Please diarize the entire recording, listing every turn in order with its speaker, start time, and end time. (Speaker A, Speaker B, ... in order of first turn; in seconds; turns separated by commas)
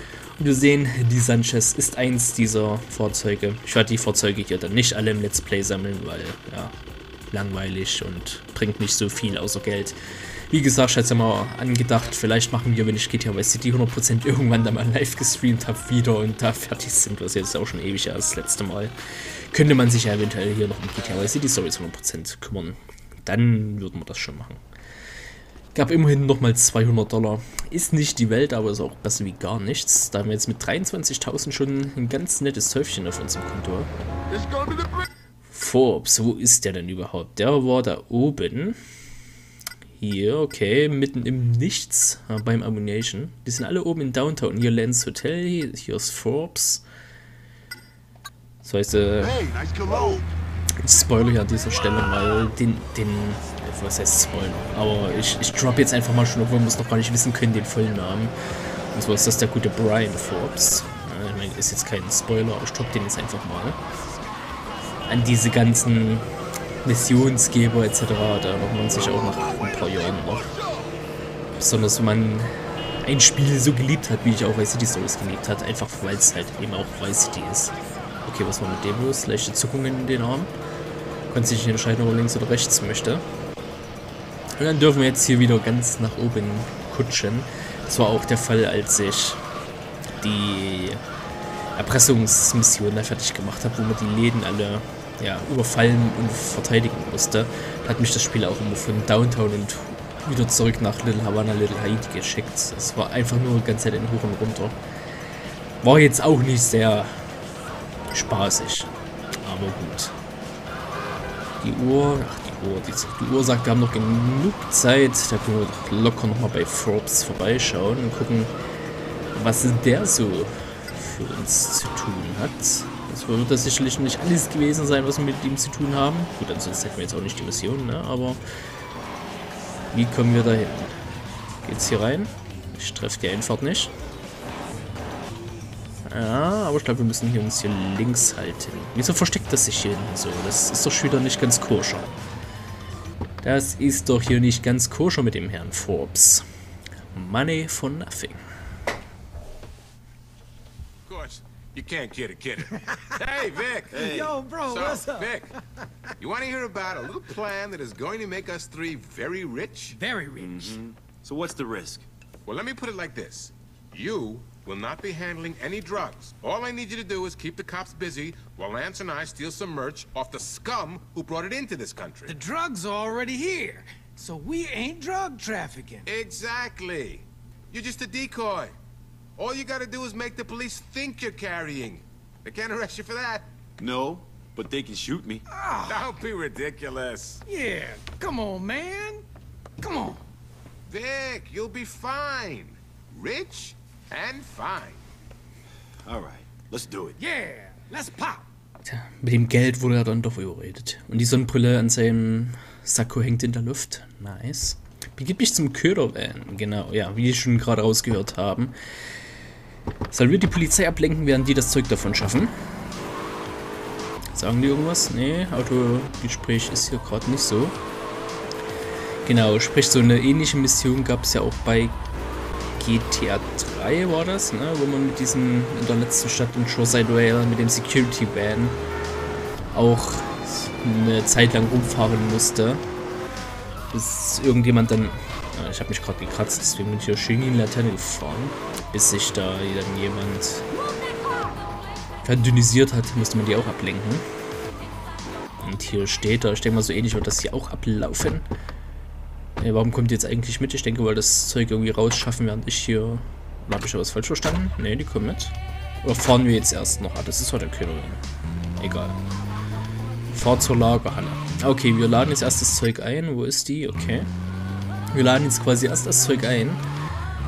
Speaker A: 0.4-6.7, Speaker A: 7.3-18.9, Speaker A: 19.5-24.6, Speaker A: 25.8-33.9, Speaker B: 34.3-35.1, Speaker A: 35.5-38.8, Speaker A: 40.0-46.8, Speaker A: 48.6-49.4, Speaker B: 49.2-50.3, Speaker A: 50.8-58.4, Speaker A: 58.9-63.8, Speaker A: 65.1-66.3, Speaker A: 66.8-70.5, Speaker A: 71.6-80.5, Speaker A: 81.3-83.2, Speaker A: 84.6-89.4, Speaker A: 90.2-91.0, Speaker A: 91.8-104.8, Speaker A: 105.8-107.2, Speaker A: 108.1-108.9, Speaker A: 109.4-110.2, Speaker A: 111.6-118.5, Speaker A: 119.3-128.4, Speaker A: 129.9-131.0, Speaker A: 131.6-133.9, Speaker A: 136.1-142.1, Speaker A: 143.4-146.4, Speaker A: 147.1-148.4, Speaker C: 151.1-154.0, Speaker B: 153.9-154.4, Speaker D: 153.9-155.5, Speaker C: 154.7-155.5, Speaker C: 156.2-160.0, Speaker D: 159.9-160.8, Speaker B: 160.4-162.1, Speaker C: 162.5-172.4, Speaker D: 172.3-176.1, Speaker C: 176.1-178.7, Speaker C: 179.4-183.5, Speaker B: 183.8-185.4, Speaker D: 185.5-186.1, Speaker C: 185.9-187.4, Speaker D: 187.5-189.2, Speaker D: 189.8-190.2, Speaker C: 190.9-195.0, Speaker B: 196.1-197.2, Speaker D: 197.2-198.4, Speaker A: 198.8-208.8, Speaker A: 210.1-212.6, Speaker A: 214.3-217.8, Speaker A: 219.2-222.0, Speaker A: 222.8-228.8, Speaker A: 229.7-232.8, Speaker A: 233.9-240.7, Speaker A: 242.2-244.2, Speaker A: 245.6-248.5, Speaker A: 249.6-258.2, Speaker A: 258.8-259.2, Speaker A: 260.3-264.3, Speaker A: 265.1-266.8